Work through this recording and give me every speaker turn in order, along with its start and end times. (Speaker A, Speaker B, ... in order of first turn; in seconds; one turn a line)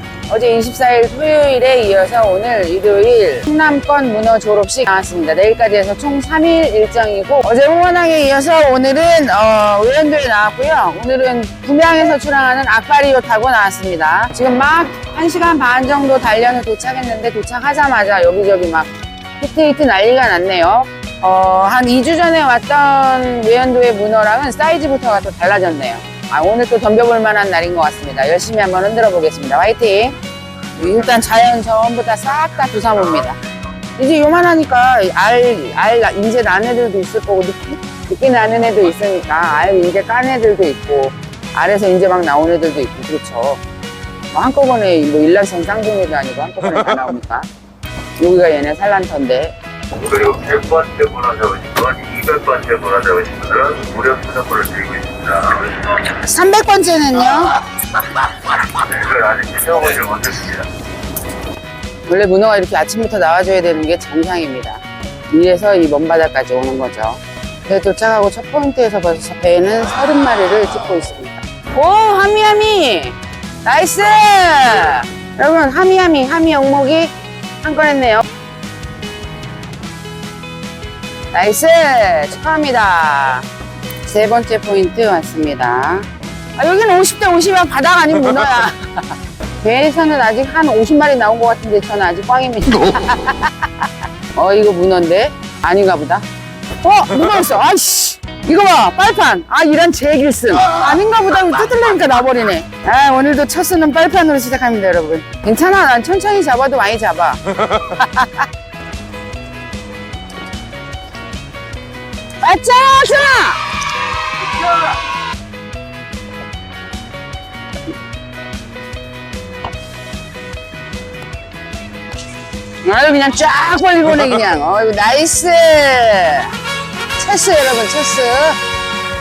Speaker A: 0.3-30.2
Speaker A: 30.8-33.4
Speaker B: 32.6-33.4
Speaker A: 34.0-43.6
Speaker A: 44.3-47.5
Speaker A: 48.2-49.5
Speaker B: 50.0-56.0
Speaker A: 56.0-57.6
Speaker B: 58.7-60.7
Speaker A: 62.1-78.2
Speaker A: 81.3-83.5
Speaker A: 84.1-88.8
Speaker A: 89.6-93.7
Speaker A: 94.3-96.2
Speaker A: 96.8-108.5
Speaker A: 112.4-113.6
Speaker A: 122.8-126.5
Speaker A: 127.2-128.6